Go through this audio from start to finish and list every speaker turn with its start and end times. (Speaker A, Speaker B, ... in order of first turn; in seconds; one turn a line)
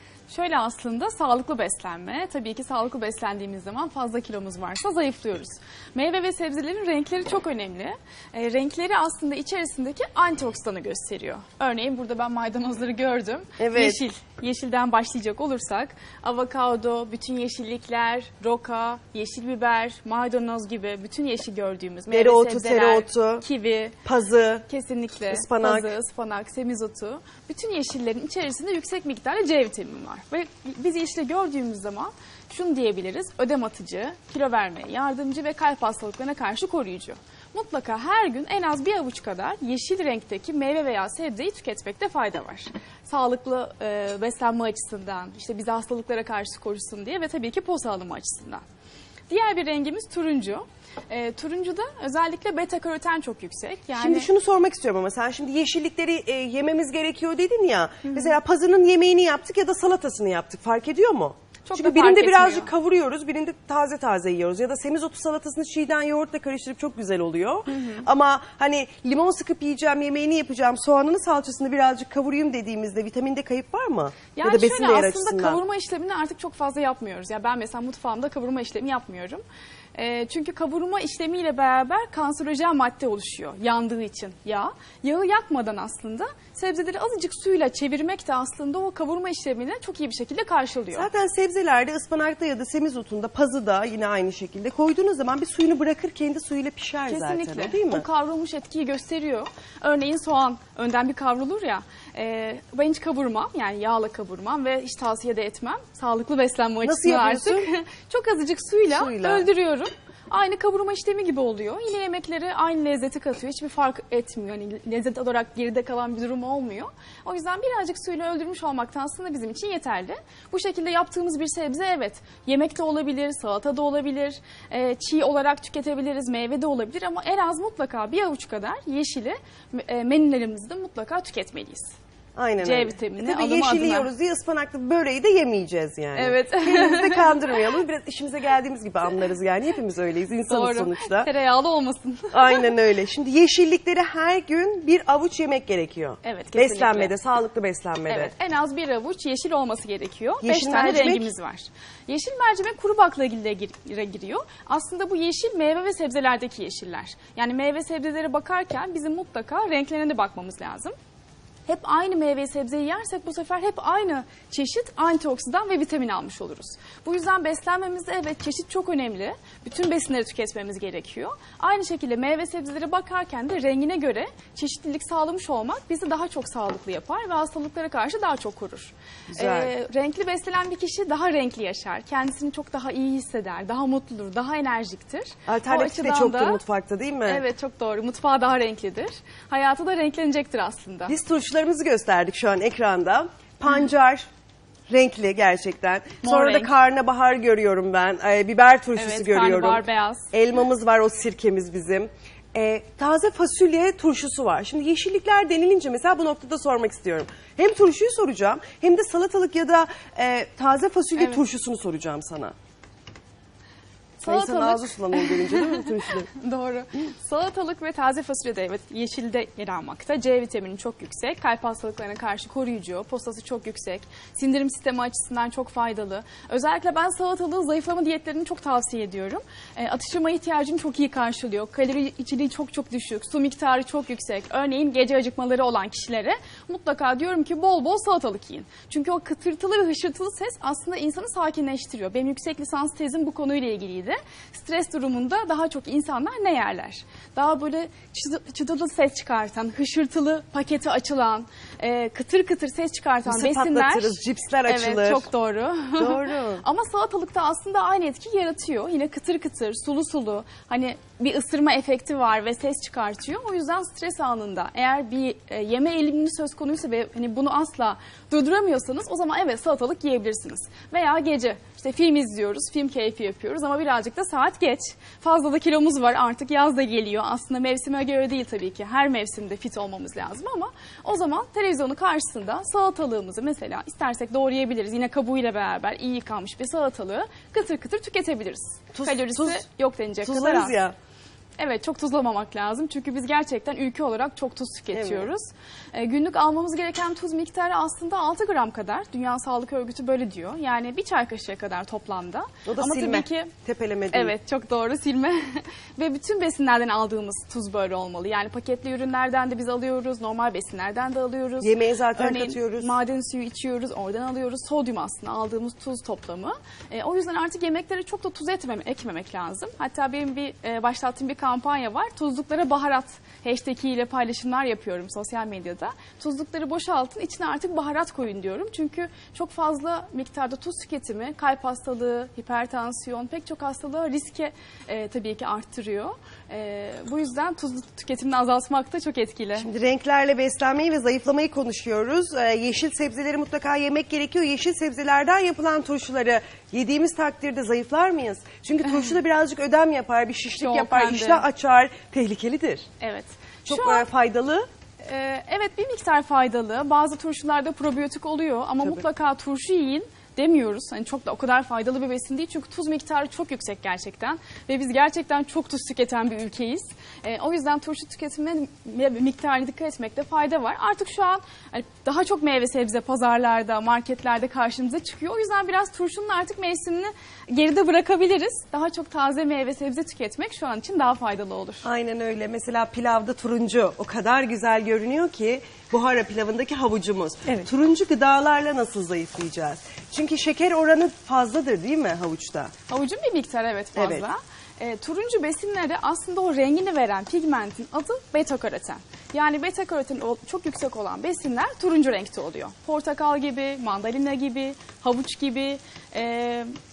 Speaker A: 0.3-24.0
Speaker B: 13.6-14.0
Speaker B: 22.1-23.4
Speaker B: 24.0-24.7
Speaker A: 24.7-48.6
Speaker B: 25.3-25.9
Speaker A: 49.3-54.3
Speaker B: 54.0-75.6
Speaker A: 61.6-62.7
Speaker A: 67.7-68.0
Speaker A: 74.3-79.4
Speaker A: 80.0-91.1
Speaker B: 90.9-98.0
Speaker A: 97.1-131.9
Speaker B: 106.8-107.7
Speaker B: 108.8-109.5
Speaker B: 132.4-141.3
Speaker A: 132.6-134.1
Speaker A: 136.2-137.6
Speaker A: 140.5-142.7
Speaker B: 142.3-148.3
Speaker A: 146.2-147.2
Speaker A: 148.1-160.9
Speaker B: 150.4-151.3
Speaker A: 161.7-186.6
Speaker B: 179.3-179.7
Speaker B: 185.5-187.4
Speaker A: 187.2-191.1
Speaker B: 191.1-194.3
Speaker B: 194.9-212.6
Speaker A: 196.2-196.7
Speaker A: 199.0-200.3
Speaker A: 211.2-211.4
Speaker A: 214.2-290.8
Speaker B: 214.2-216.3
Speaker B: 253.3-255.3
Speaker B: 256.0-256.6
Speaker B: 288.9-289.6
Speaker B: 290.2-290.9
Speaker A: 291.6-303.5
Speaker B: 294.9-295.3
Speaker B: 302.7-304.4
Speaker A: 304.1-339.7
Speaker B: 311.6-313.0
Speaker B: 339.6-352.9
Speaker A: 350.6-351.4
Speaker A: 353.0-354.1
Speaker B: 353.7-354.7
Speaker A: 355.0-381.9
Speaker B: 381.8-392.7
Speaker A: 392.9-406.7
Speaker B: 394.0-394.3